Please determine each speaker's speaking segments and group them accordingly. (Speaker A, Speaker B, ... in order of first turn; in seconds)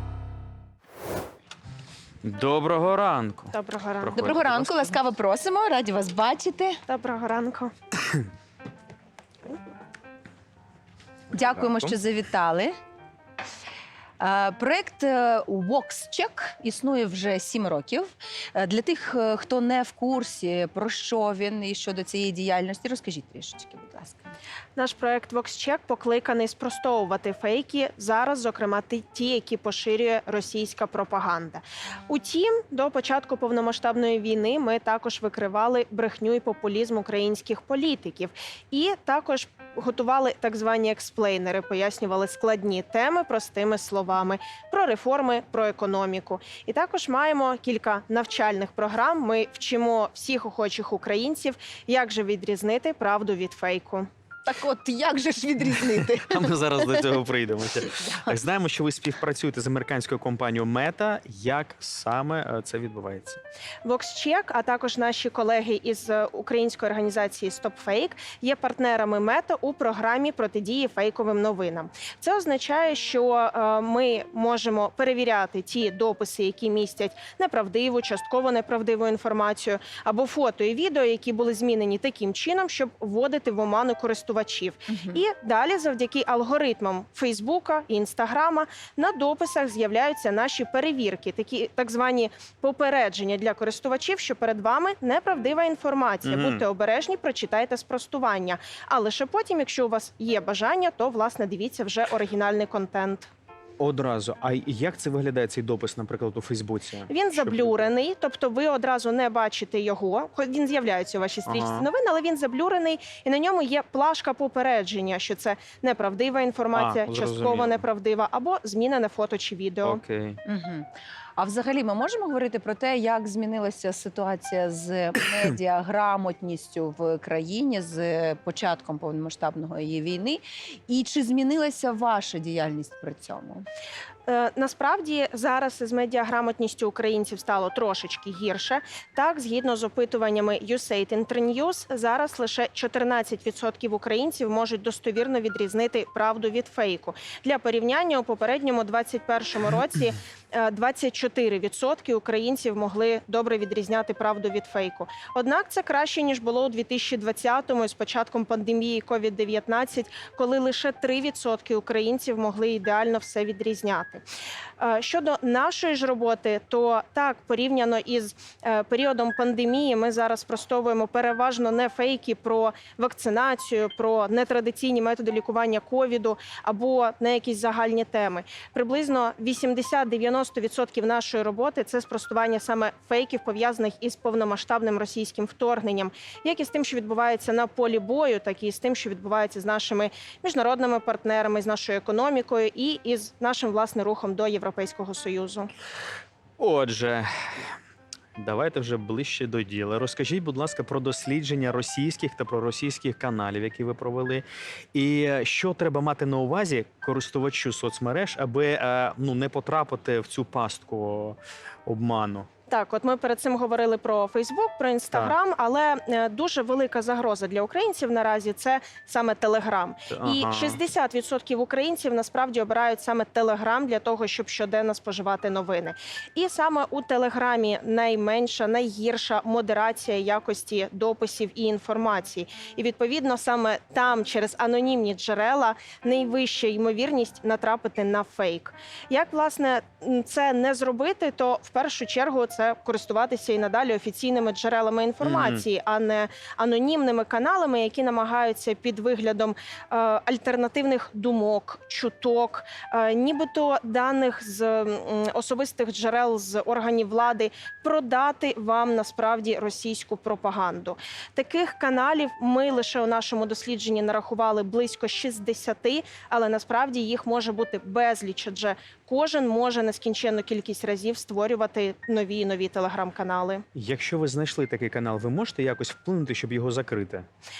Speaker A: 2.2-5.0, 56.3-63.4, 96.2-96.6, 103.8-107.9, 111.5-111.9, 116.8-117.8, 119.8-120.4, 196.6-197.7, 198.4-212.5, 220.1-220.8, 245.2-245.6, 273.8-277.3
Speaker B: 3.5-4.2, 6.9-7.7, 24.8-54.1, 63.9-103.3, 107.1-120.0, 134.3-164.2, 164.8-195.7, 212.7-273.6
Speaker C: 4.2-6.8, 11.3-12.7, 14.2-24.3, 54.5-57.2, 57.9-58.3, 84.9-85.2, 120.5-133.7